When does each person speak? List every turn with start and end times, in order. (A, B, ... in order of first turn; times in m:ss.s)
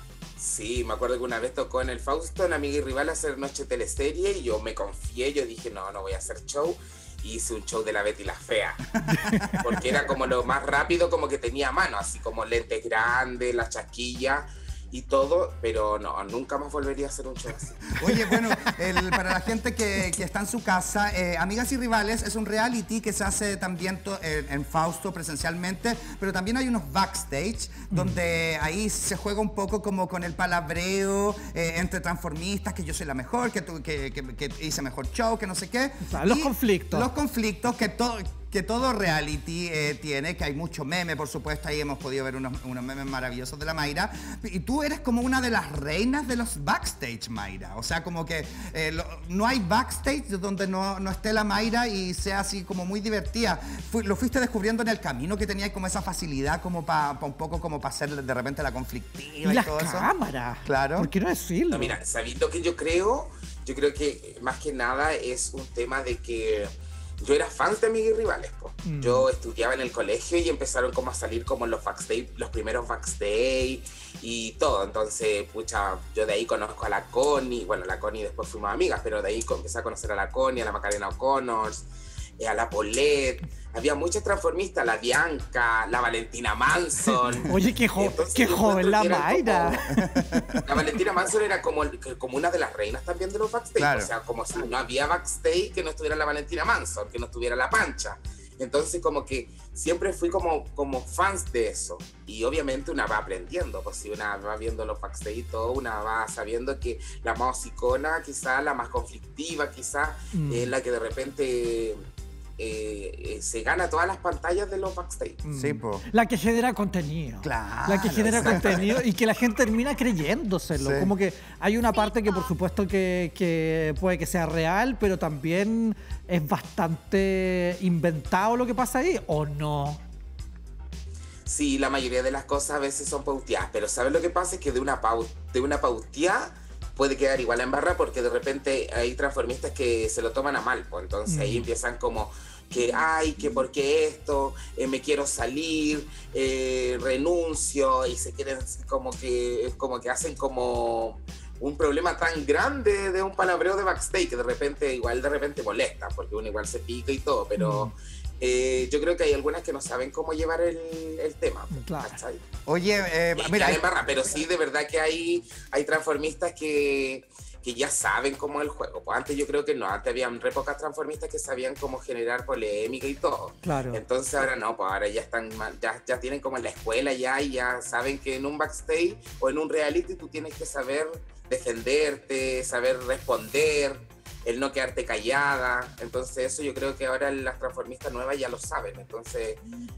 0:00.4-0:08.9 A
0:09.0-0:09.8 B
0:09.0-0:09.6 C
0:09.6-0:18.0 A
0:18.0-1:00.1 B
0:18.0-0:18.8 C
0:27.9-0:28.2 C
0:36.1-0:37.1 C
0:59.4-1:01.9 C
1:00.6-1:01.1 B
1:01.7-1:06.7 A
1:07.2-1:21.8 A
1:08.8-1:09.3 C
1:22.4-1:29.9 A
1:27.5-1:30.0 C
1:29.9-1:30.6 B
1:30.6-1:52.0 A
1:33.8-1:34.1 B
1:50.3-1:50.7 C
1:52.6-1:55.4 A
1:55.5-2:10.0 C
1:55.5-1:56.0 B
1:57.4-1:59.0 B
1:58.2-1:58.8 A
2:00.8-2:01.1 B
2:11.5-2:42.4 A
2:21.3-2:21.7 C
2:37.6-2:37.9 C
2:41.7-2:42.2 C
2:42.6-2:43.8 B
2:43.4-3:09.6 A
2:53.6-2:54.0 C